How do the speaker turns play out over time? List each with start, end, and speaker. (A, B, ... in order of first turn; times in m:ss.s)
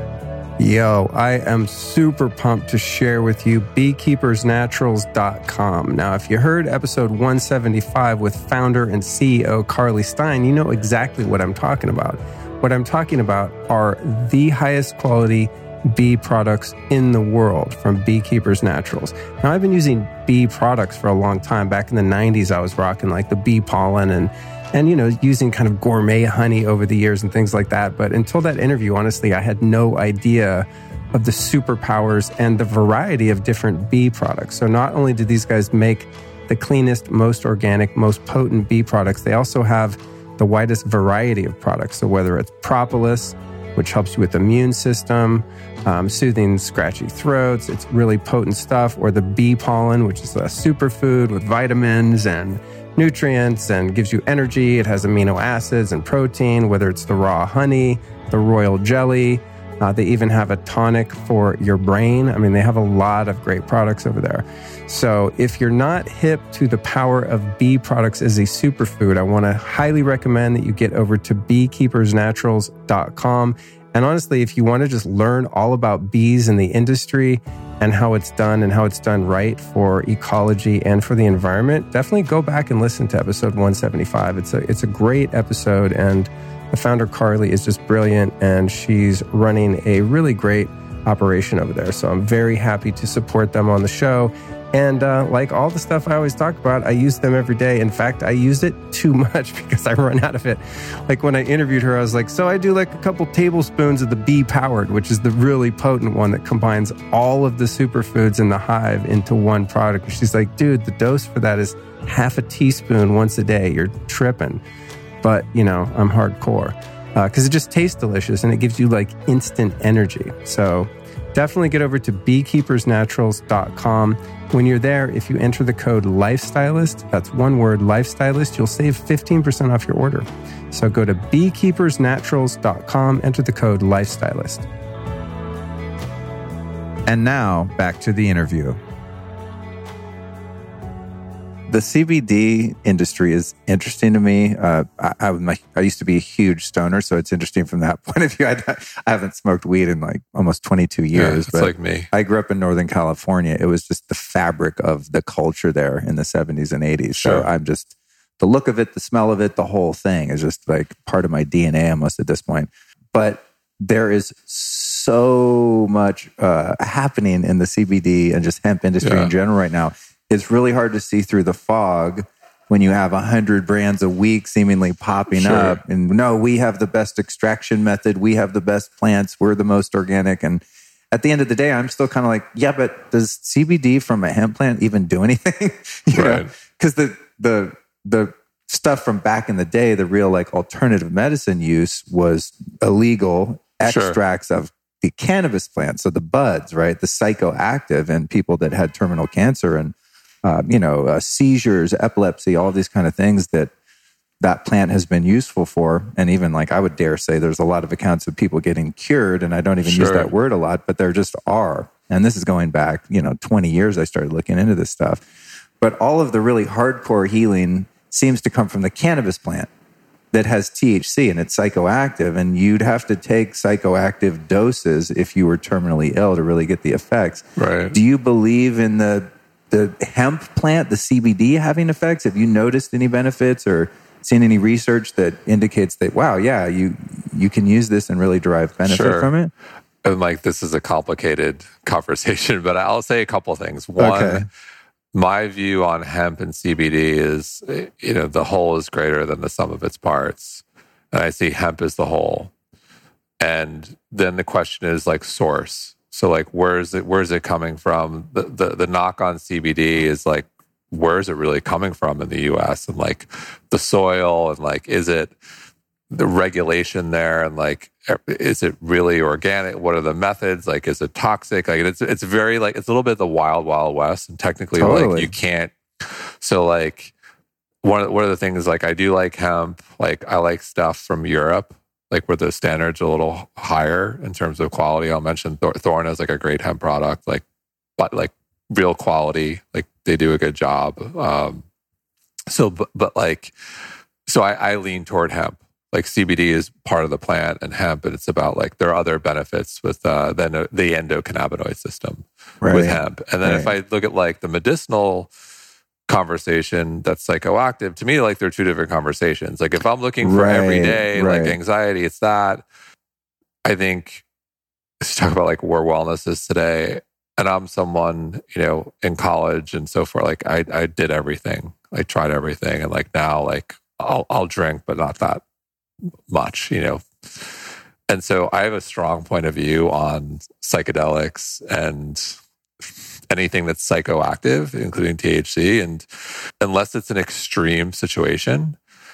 0:00.6-1:54.6 A
1:55.2-2:14.6 A
2:17.1-2:18.8 B
2:21.7-3:23.7 B
2:31.1-2:32.1 C
2:37.1-2:37.5 C
2:49.0-2:49.3 C
2:55.3-2:55.8 C
3:06.1-3:06.5 C
3:13.8-3:14.2 C
3:24.4-3:35.2 B
3:29.8-3:30.3 C
3:35.8-3:39.7 B
3:40.3-3:59.5 B
3:47.6-3:48.0 C
3:58.8-3:59.3 C
4:00.0-4:04.4 C
4:04.0-4:04.4 B
4:05.1-4:12.5 C
4:13.4-4:25.3 C
4:26.1-4:37.1 C
4:34.8-4:35.3 B
4:37.8-4:47.4 C
4:48.0-4:51.6 C
4:52.5-4:53.5 C
4:54.2-5:05.3 C
5:02.6-5:03.7 B
5:06.1-5:12.6 C
5:10.2-5:11.6 B
5:13.6-5:14.2 C
5:15.0-5:25.4 C
5:26.3-5:32.4 C
5:33.3-5:36.0 C
5:36.6-5:38.8 C